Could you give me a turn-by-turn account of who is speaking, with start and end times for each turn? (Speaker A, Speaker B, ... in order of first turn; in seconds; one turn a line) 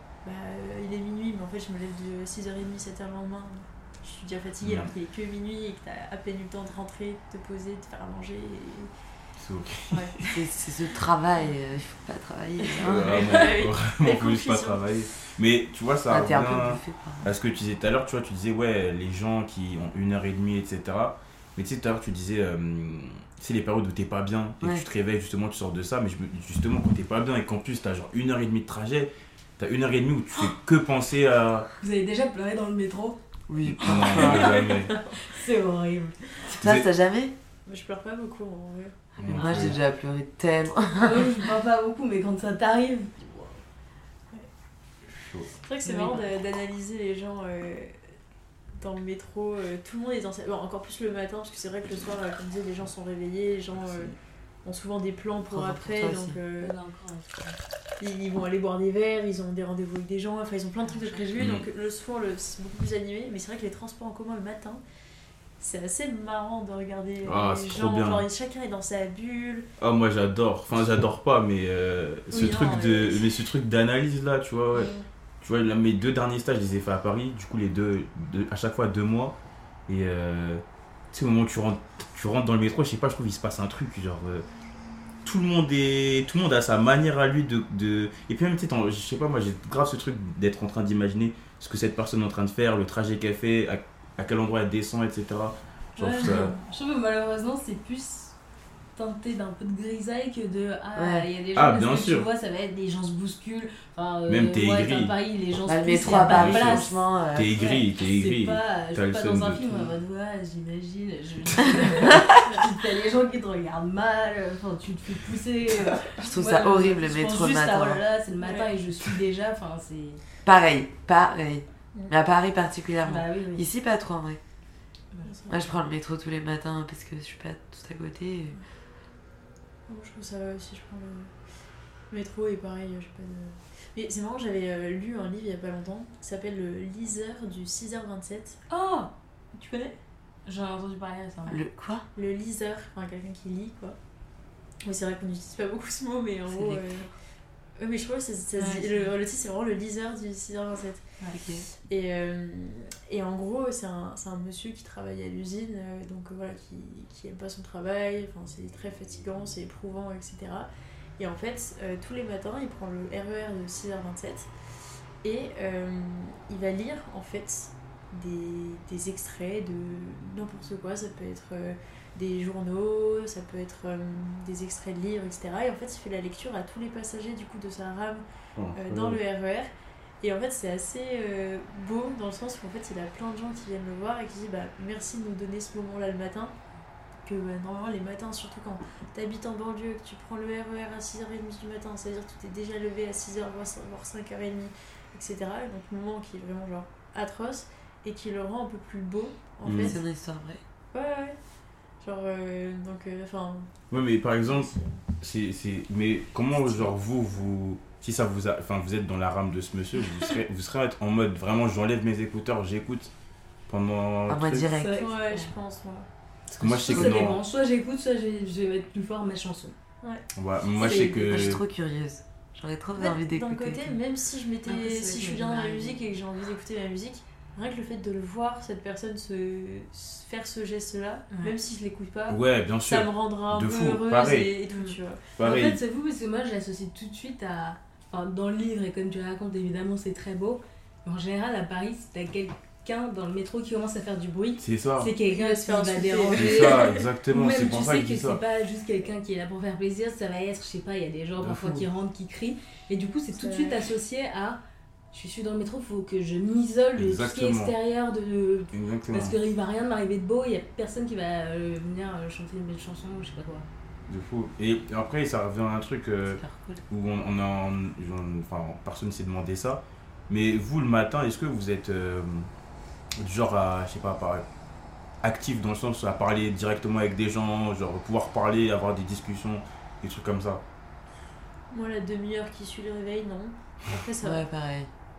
Speaker A: 0.2-8.9
Speaker B: 4.6-4.9
Speaker B: 9.4-10.4
Speaker A: 9.9-10.2
Speaker C: 10.3-13.2
Speaker B: 12.8-31.7
Speaker A: 13.1-14.8
Speaker C: 16.1-17.2
Speaker D: 31.8-33.2
Speaker C: 33.5-34.6
Speaker B: 33.6-35.0
Speaker D: 33.8-36.2
Speaker A: 34.4-35.1
Speaker C: 36.4-37.3
Speaker B: 36.6-36.9
Speaker A: 37.6-39.1
Speaker B: 39.2-39.8
Speaker C: 39.3-41.3
Speaker D: 39.3-39.8
Speaker D: 40.9-43.6
Speaker B: 45.1-45.5
Speaker A: 45.6-48.0
Speaker D: 45.8-46.3
Speaker A: 48.7-54.1
Speaker B: 53.8-54.1
Speaker A: 54.6-56.7
Speaker C: 55.5-56.4
Speaker D: 56.6-57.6
Speaker A: 58.0-64.8
Speaker D: 60.9-61.3
Speaker B: 61.4-61.7
Speaker A: 65.6-69.7
Speaker B: 67.2-68.3
Speaker B: 69.8-79.3
Speaker A: 72.3-73.3
Speaker B: 79.9-84.4
Speaker B: 85.2-96.5
Speaker D: 96.0-98.3
Speaker D: 99.0-120.2
Speaker C: 101.0-101.3
Speaker B: 101.5-102.3
Speaker B: 104.3-105.1
Speaker C: 105.6-107.5
Speaker B: 106.1-109.9
Speaker C: 116.2-118.0
Speaker A: 118.4-118.7
Speaker C: 120.4-124.4
Speaker D: 123.0-123.6
Speaker A: 125.2-125.8
Speaker C: 125.5-128.6
Speaker A: 129.9-131.3
Speaker A: 132.1-138.7
Speaker D: 138.7-139.1
Speaker A: 139.5-140.0
Speaker D: 140.4-141.6
Speaker C: 141.5-142.1
Speaker A: 142.1-144.0
Speaker A: 144.8-147.1
Speaker C: 146.5-147.1
Speaker A: 147.8-164.5
Speaker D: 148.6-149.1
Speaker C: 151.3-151.7
Speaker A: 165.2-186.5
Speaker B: 178.6-179.2
Speaker A: 187.3-200.0
Speaker B: 199.6-200.0
Speaker C: 199.8-200.6
Speaker A: 200.9-201.3
Speaker A: 202.0-203.7
Speaker B: 203.9-213.1
Speaker A: 204.4-205.0
Speaker B: 213.7-214.7
Speaker C: 214.3-214.9
Speaker D: 214.7-215.5
Speaker A: 214.9-216.1
Speaker D: 216.5-219.7
Speaker B: 216.6-217.4
Speaker C: 216.9-217.3
Speaker B: 220.3-221.6
Speaker D: 220.8-221.5
Speaker C: 220.8-223.9
Speaker A: 222.9-235.2
Speaker D: 224.7-226.0
Speaker B: 232.3-234.5
Speaker D: 234.7-254.6
Speaker B: 235.4-235.8
Speaker B: 244.6-245.1
Speaker A: 245.2-247.0
Speaker B: 246.3-248.4
Speaker B: 251.4-251.9
Speaker A: 253.3-253.9
Speaker D: 255.1-263.7
Speaker B: 257.0-257.7
Speaker B: 258.7-259.4
Speaker B: 264.1-272.5
Speaker C: 266.4-266.8
Speaker B: 273.2-274.4
Speaker B: 275.2-280.6
Speaker A: 281.7-284.4
Speaker C: 284.2-284.9